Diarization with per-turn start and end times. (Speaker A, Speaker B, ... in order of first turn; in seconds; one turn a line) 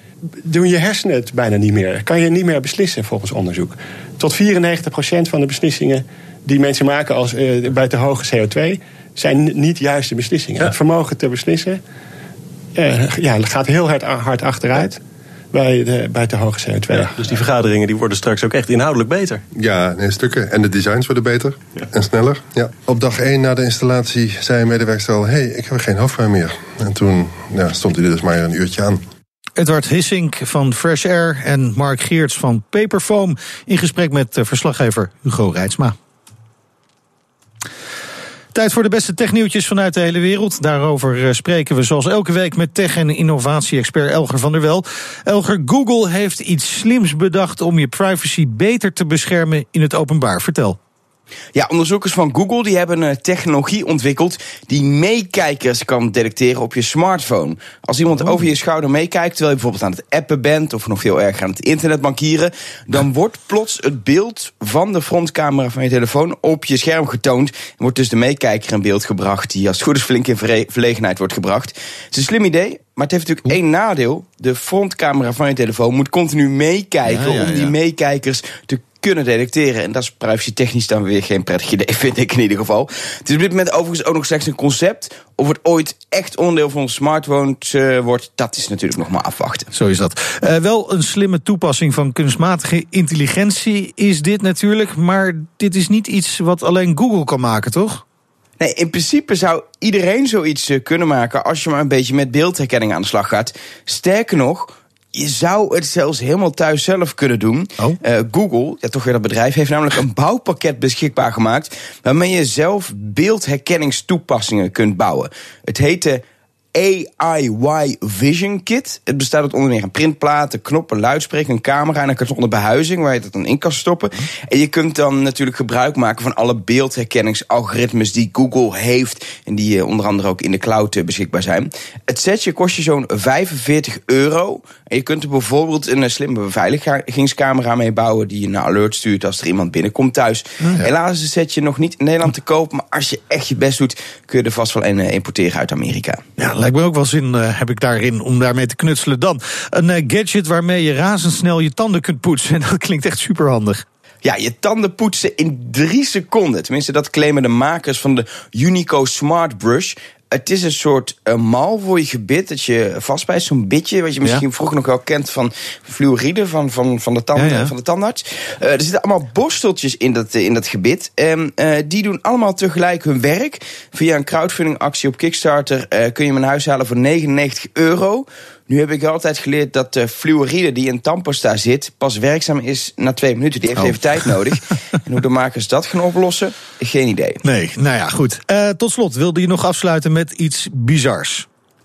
Speaker A: 0.5-11.8
Speaker A: 12.8-15.0
Speaker A: 15.5-17.2
Speaker B: 16.9-19.4
Speaker C: 19.5-29.0
Speaker D: 29.6-36.0
Speaker D: 38.5-50.8
Speaker E: 51.5-89.7
Speaker D: 77.0-77.7
Speaker D: 89.7-98.0
Speaker E: 98.6-116.2
Speaker E: 116.8-146.2
Speaker D: 140.6-140.9
Speaker D: 146.4-153.8
Speaker E: 154.2-187.4
Speaker D: 167.3-167.7
Speaker D: 183.8-184.3
Speaker D: 187.4-191.5